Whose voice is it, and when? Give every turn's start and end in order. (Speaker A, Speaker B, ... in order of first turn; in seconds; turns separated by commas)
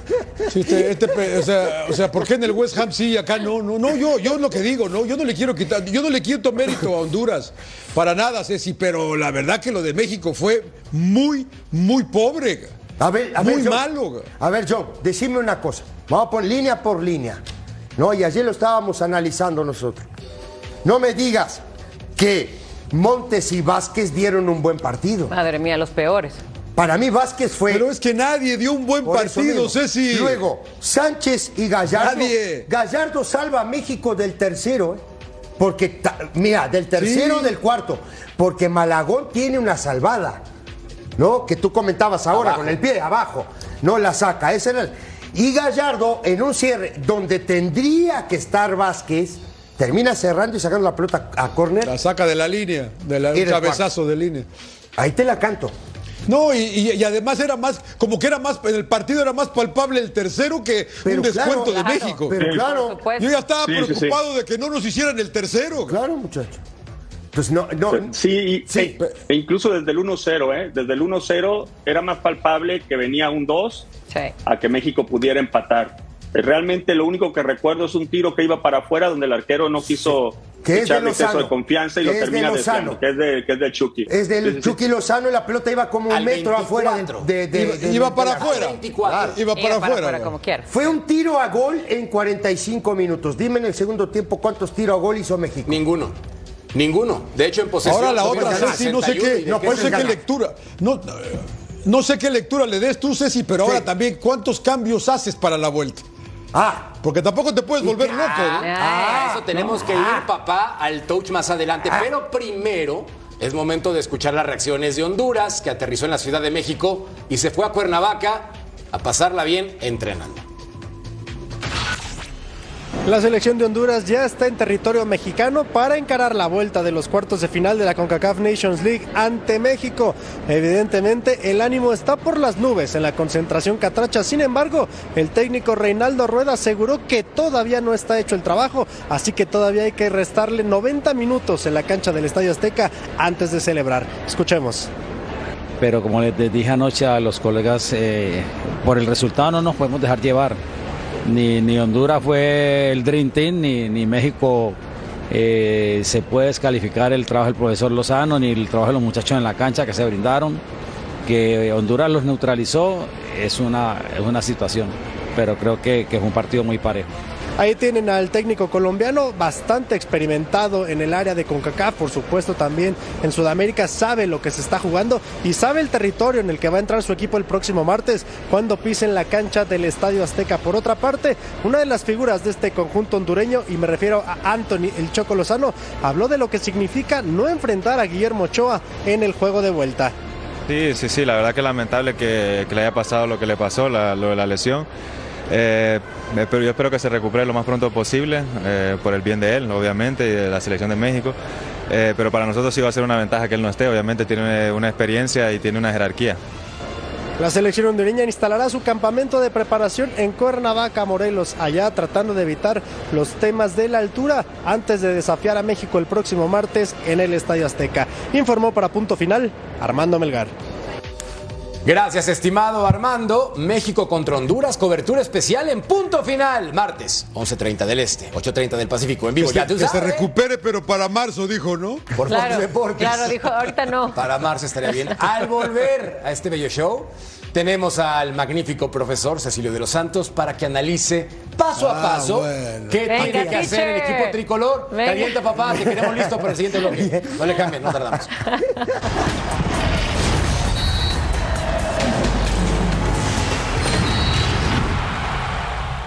Speaker A: 0.5-12.7, Speaker B: 13.0-13.8, Speaker A: 13.4-14.3, Speaker B: 14.4-17.4, Speaker B: 18.0-20.1, Speaker B: 20.8-21.6, Speaker B: 22.2-25.3, Speaker C: 25.3-26.4, Speaker B: 26.8-27.9, Speaker A: 27.7-30.4, Speaker B: 29.0-35.0, Speaker A: 31.9-32.7, Speaker B: 35.6-40.4, Speaker A: 37.0-37.5, Speaker B: 41.2-51.9, Speaker D: 42.3-42.8, Speaker A: 51.8-54.5, Speaker B: 53.3-53.8, Speaker B: 55.0-55.7, Speaker A: 56.3-62.5, Speaker B: 61.0-63.0, Speaker C: 61.6-63.3, Speaker A: 63.2-66.0, Speaker E: 63.6-64.2, Speaker B: 65.9-66.6, Speaker B: 67.3-68.1, Speaker E: 67.9-73.9, Speaker B: 68.7-69.0, Speaker E: 74.5-84.8, Speaker B: 80.7-83.0, Speaker B: 84.1-89.4, Speaker D: 86.1-87.3, Speaker A: 87.5-90.3, Speaker D: 88.3-89.4, Speaker C: 89.5-90.7, Speaker B: 90.7-95.8, Speaker D: 95.7-96.2, Speaker D: 96.7-100.2, Speaker A: 97.8-106.0, Speaker B: 98.0-100.2, Speaker B: 103.6-103.9, Speaker B: 106.5-107.0, Speaker A: 107.0-108.7, Speaker B: 107.8-110.3, Speaker C: 108.6-109.3, Speaker D: 109.1-120.4, Speaker F: 123.0-144.9, Speaker G: 145.8-150.6, Speaker G: 151.2-154.8, Speaker G: 155.3-160.6, Speaker G: 161.2-167.1, Speaker F: 167.6-190.2, Speaker H: 190.7-194.9, Speaker H: 195.5-201.4, Speaker H: 201.9-206.4, Speaker F: 207.4-220.5, Speaker D: 221.8-230.3, Speaker A: 229.4-232.1, Speaker D: 232.2-233.5, Speaker C: 232.3-234.2, Speaker D: 234.1-248.4, Speaker A: 241.8-243.6, Speaker C: 243.1-244.4, Speaker C: 244.9-245.3, Speaker B: 245.8-246.1, Speaker B: 246.8-247.4, Speaker C: 248.5-248.8